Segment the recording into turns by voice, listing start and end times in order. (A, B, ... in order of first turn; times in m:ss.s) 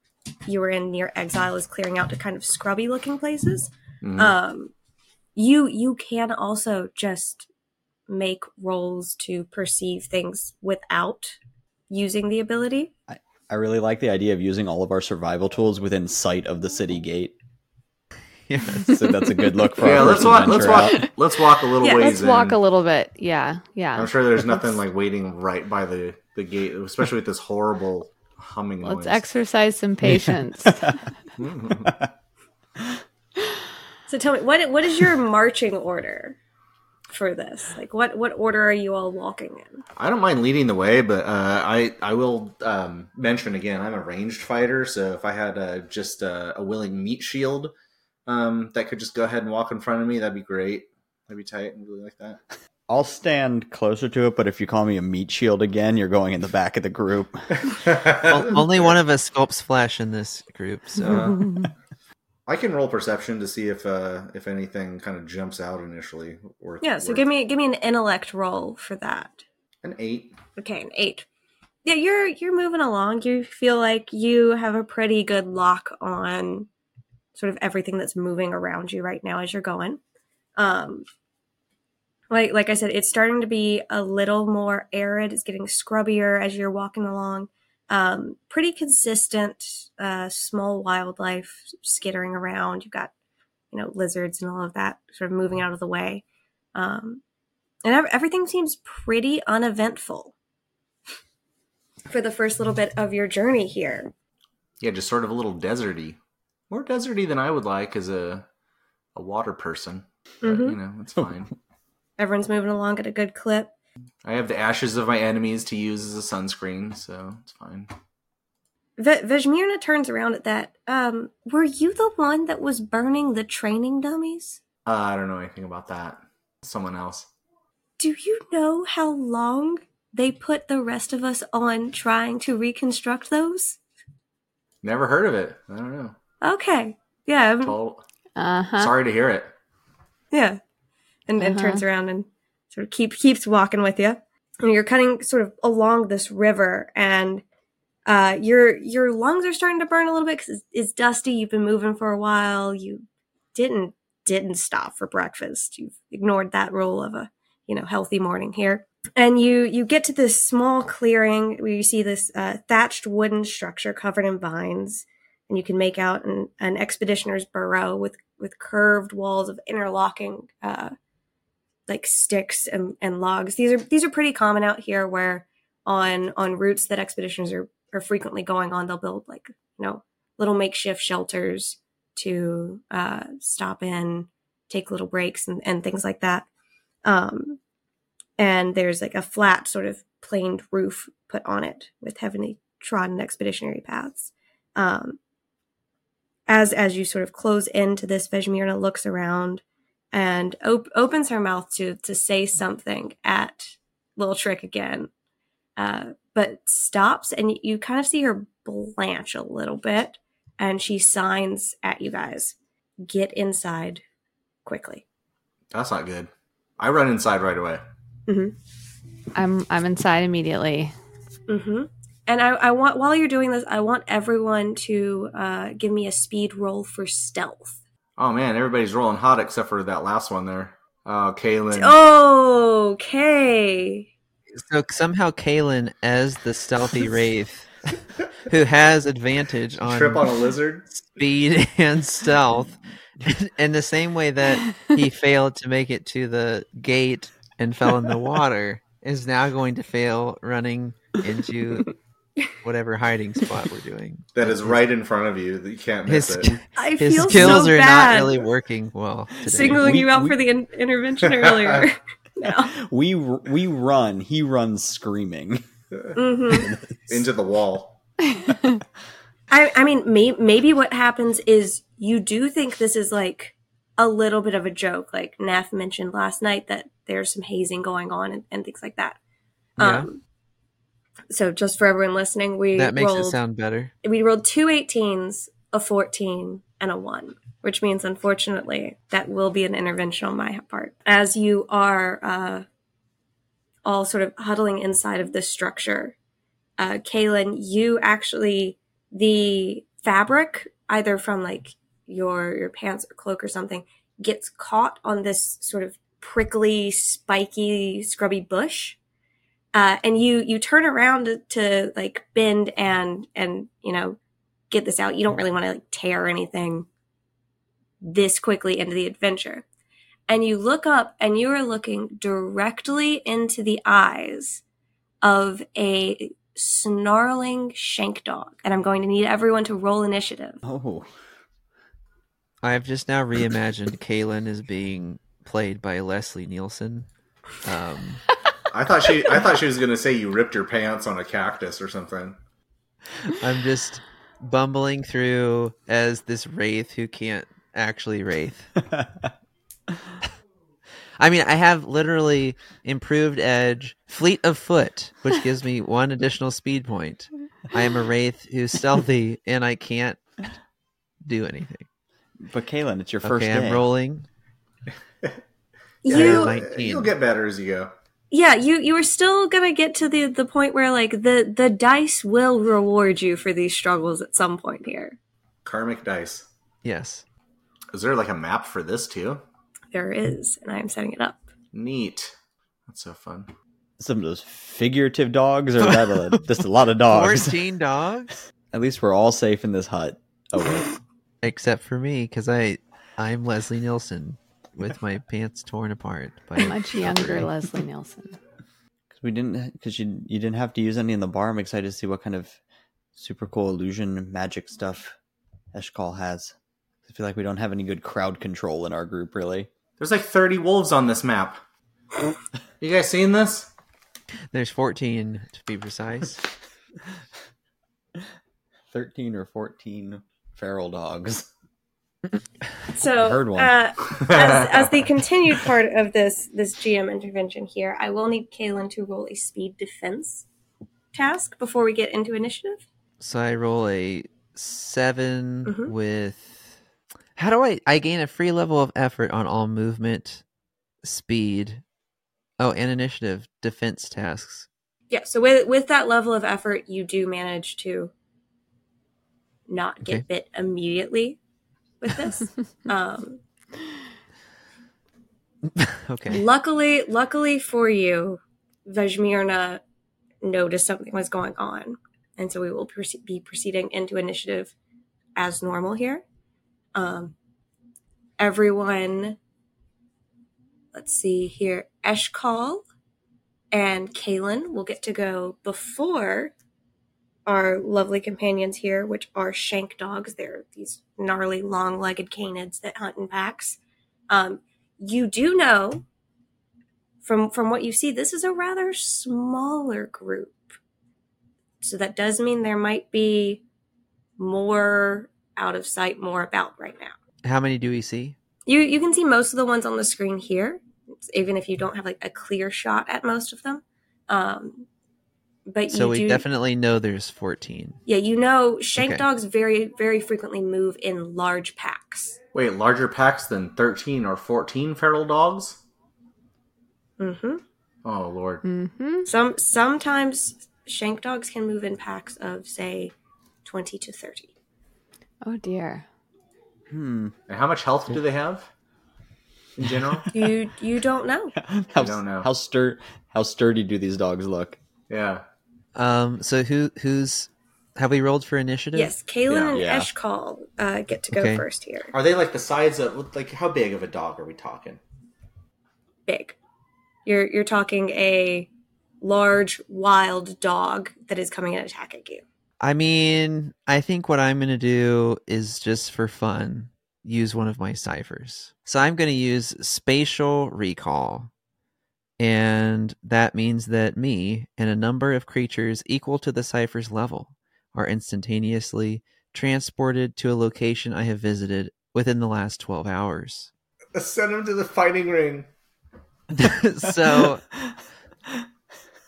0:00.5-0:04.7 A
0:04.0-0:04.4 B
0:05.4-0:07.5 A
0:08.1-0:11.4 A
0:11.9-0:12.9 A
0:13.1-0:17.3 C
0:18.5-0:19.0 D
0:18.8-0:21.1 C
0:19.8-0:22.6 B
0:20.8-0:21.1 E
0:21.8-0:22.1 A
0:21.8-0:24.6 E
0:24.0-0:29.2 B
0:28.8-0:31.1 E
0:30.7-0:31.0 C
0:31.4-0:31.9 B
0:34.1-0:36.4 A
0:37.1-0:39.8 A
0:40.0-0:47.7 B
0:48.3-0:52.4 B
0:52.9-0:57.5 C
0:57.6-0:59.0 B
0:58.2-1:01.2 D
1:01.0-1:01.6 B
1:01.3-1:01.7 E
1:02.5-1:07.2 B
1:06.8-1:09.4 A
1:09.8-1:10.4 B
1:10.6-1:11.3 A
1:11.8-1:16.7 A
1:17.4-1:20.0 A
1:20.6-1:21.0 A
1:22.3-1:33.1 A
1:33.7-1:36.2 A
1:36.8-1:37.2 A
1:37.8-1:40.3 A
1:42.1-1:44.1 A
1:44.8-1:46.2 B
1:46.7-1:48.4 B
1:49.2-1:51.5 B
1:50.4-1:50.8 A
1:52.2-1:53.7 A
1:54.2-1:57.9 B
1:59.0-2:04.6 A
2:04.9-2:07.3 B
2:08.0-2:13.8 A
2:14.8-2:16.2 B
2:16.4-2:17.8 A
2:17.6-2:18.0 B
2:18.4-2:18.9 E
2:18.8-2:19.5 B
2:20.3-2:20.6 A
2:21.3-2:27.4 A
2:21.4-2:21.8 E
2:28.1-2:50.9 A
2:51.9-3:06.5 A
3:07.0-3:07.6 A
3:08.4-3:15.2 A
3:16.5-3:25.1 A
3:25.8-3:34.0 A
3:34.6-3:35.0 A
3:35.7-3:37.8 B
3:38.3-3:38.6 A
3:39.4-3:40.9 E
3:41.5-3:47.8 A
3:48.2-3:52.0 B
3:51.7-3:54.1 A
3:54.6-3:57.7 D
3:58.4-4:00.4 D
3:59.8-4:00.8 B
4:00.9-4:12.0 D
4:04.6-4:04.9 E
4:12.6-4:14.7 D
4:14.4-4:16.6 B
4:16.1-4:19.9 D
4:16.8-4:18.4 A
4:19.4-4:22.7 A
4:19.6-4:20.4 C
4:21.5-4:21.8 B
4:22.7-4:25.6 C
4:26.2-4:26.8 A
4:26.5-4:26.8 C
4:27.1-4:28.0 B
4:28.3-4:28.8 E
4:29.5-4:39.2 A
4:39.8-4:40.2 A
4:39.8-4:40.1 D
4:41.3-4:43.4 A
4:42.8-4:43.9 D
4:44.0-4:52.6 A
4:53.9-4:56.2 A
4:56.8-5:09.0 A
5:09.7-5:14.2 A
5:14.7-5:16.9 A
5:18.0-5:19.6 A
5:20.3-5:24.6 A
5:25.2-5:30.6 A
5:30.6-5:31.1 C
5:32.6-5:37.1 D
5:37.6-5:38.3 D
5:38.7-5:42.4 B
5:43.3-5:48.8 D
5:48.9-5:49.3 C
5:51.2-6:00.6 D
6:01.2-6:01.9 D
6:02.4-6:03.8 C
6:03.2-6:04.3 D
6:06.0-6:06.6 A
6:06.1-6:07.9 B
6:06.1-6:07.1 D
6:08.3-6:15.2 A
6:15.6-6:16.5 B
6:16.8-6:17.2 D
6:17.9-6:19.4 B
6:19.9-6:21.4 A
6:21.7-6:22.4 B
6:22.9-6:23.5 B
6:24.0-6:27.6 C
6:25.8-6:26.4 D
6:27.1-6:28.4 D
6:28.7-6:30.9 C
6:31.4-6:37.5 D
6:36.6-6:38.4 E
6:39.1-6:42.6 C
6:43.2-6:45.2 C
6:45.7-6:46.5 C
6:47.1-6:49.7 C
6:50.0-6:51.6 B
6:52.8-6:53.7 B
6:54.5-6:56.4 D
6:58.9-7:01.5 C
7:02.9-7:10.5 A
7:03.2-7:03.7 C
7:04.2-7:04.9 B
7:11.1-7:12.8 A
7:13.2-7:16.7 D
7:15.7-7:15.9 A
7:17.4-7:20.4 D
7:21.0-7:21.8 D
7:22.6-7:24.7 D
7:25.1-7:28.1 A
7:29.7-7:31.4 A
7:32.0-7:33.4 A
7:35.8-7:36.4 D
7:36.3-7:39.8 A
7:40.4-7:44.7 A
7:45.4-7:46.2 A
7:47.0-7:47.4 A
7:48.4-7:49.4 A
7:50.9-7:52.8 A
7:53.7-7:56.5 A
7:57.5-8:03.8 A
8:04.3-8:06.0 A
8:07.2-8:10.6 A
8:11.8-8:13.6 A
8:14.4-8:17.1 A
8:17.4-8:18.4 D
8:18.7-8:24.9 A
8:25.7-8:26.4 A
8:25.9-8:28.0 D
8:28.1-8:32.4 A
8:29.0-8:29.3 D
8:32.5-8:35.8 B
8:37.2-8:37.6 A
8:38.0-8:38.6 B
8:38.6-8:39.3 E
8:39.2-8:43.1 A
8:43.6-8:44.5 A
8:45.4-8:46.1 E
8:46.9-8:47.3 C
8:47.5-8:48.7 B
8:49.8-8:50.3 B
8:50.3-8:51.5 A
8:51.6-8:54.8 C
8:52.0-8:52.5 B
8:55.1-8:55.4 B
8:56.0-8:59.1 D
8:58.9-9:02.1 A
8:59.5-8:59.8 B
8:59.7-9:00.1 C
9:01.3-9:01.6 D
9:02.1-9:05.0 B
9:06.3-9:06.6 A
9:07.3-9:08.7 A
9:09.2-9:12.4 A
9:12.8-9:21.5 D
9:22.4-9:33.7 D
9:34.2-9:35.7 B
9:36.6-9:37.6 D
9:37.1-9:38.0 C